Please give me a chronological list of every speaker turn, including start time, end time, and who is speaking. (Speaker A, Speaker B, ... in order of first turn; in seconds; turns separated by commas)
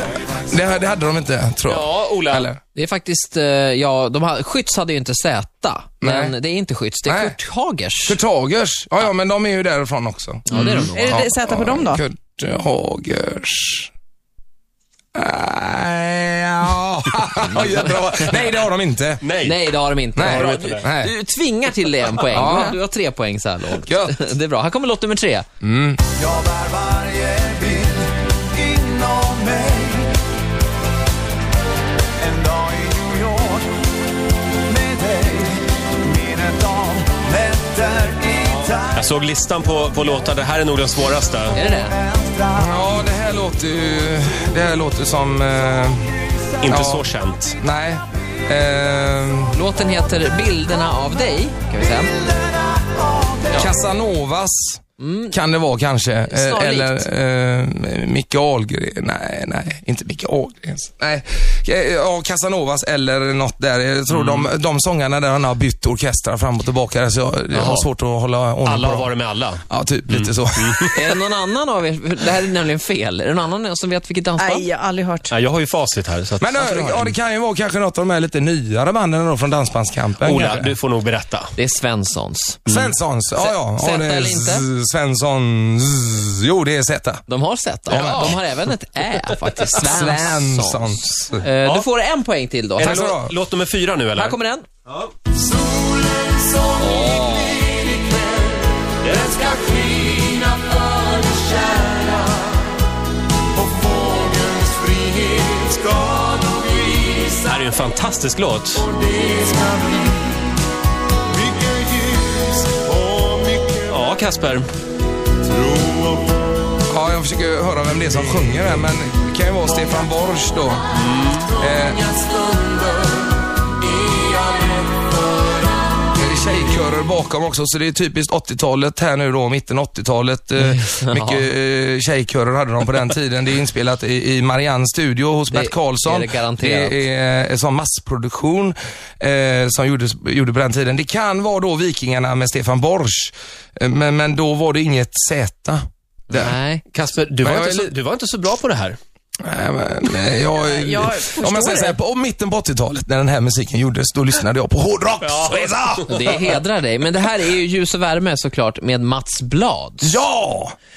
Speaker A: 0.5-2.6, Speaker B: 1.6-2.5, Speaker C: 2.7-8.2, Speaker A: 6.0-6.4, Speaker A: 7.1-7.4, Speaker A: 8.1-10.5, Speaker C: 10.5-11.3, Speaker B: 10.5-10.9, Speaker D: 10.9-12.1, Speaker A: 11.0-13.9, Speaker A: 15.1-19.3, Speaker C: 17.4-17.9, Speaker B: 19.2-19.6, Speaker C: 19.4-25.5, Speaker A: 20.2-21.1, Speaker B: 20.2-20.9, Speaker A: 22.3-22.8, Speaker A: 23.9-24.1, Speaker A: 25.6-26.0, Speaker E: 26.3-28.0, Speaker E: 28.6-29.9, Speaker E: 32.3-33.5, Speaker E: 34.8-35.5, Speaker E: 36.2-38.6, Speaker B: 38.9-41.6, Speaker C: 41.5-42.0, Speaker A: 42.5-49.5, Speaker B: 46.6-47.6, Speaker C: 49.5-52.1, Speaker A: 53.5-69.1, Speaker C: 55.0-55.4, Speaker C: 56.3-57.1, Speaker B: 64.1-64.5, Speaker B: 67.5-67.9, Speaker B: 68.7-71.0, Speaker A: 69.7-70.9, Speaker C: 70.9-74.7, Speaker D: 74.4-75.4, Speaker B: 75.3-77.1, Speaker A: 76.4-80.7, Speaker B: 80.2-81.5, Speaker C: 81.6-82.6, Speaker B: 82.7-82.9, Speaker A: 82.7-87.2, Speaker C: 83.4-84.7, Speaker C: 87.3-93.1, Speaker A: 87.9-88.4, Speaker B: 87.9-88.2, Speaker A: 89.7-91.5, Speaker B: 92.8-95.1, Speaker A: 92.8-93.3, Speaker C: 94.2-94.7, Speaker C: 96.8-97.7, Speaker B: 99.1-99.4, Speaker B: 107.4-108.9, Speaker D: 109.4-109.7, Speaker B: 113.8-114.7, Speaker A: 116.9-120.9, Speaker B: 120.9-121.5, Speaker A: 121.5-122.3, Speaker A: 126.1-146.6, Speaker C: 130.6-131.5, Speaker C: 135.5-137.0, Speaker C: 146.3-146.8, Speaker B: 146.9-149.0, Speaker A: 147.4-147.9, Speaker A: 149.4-156.2, Speaker D: 150.5-152.0, Speaker B: 155.2-156.6, Speaker C: 156.1-160.2, Speaker A: 160.0-160.8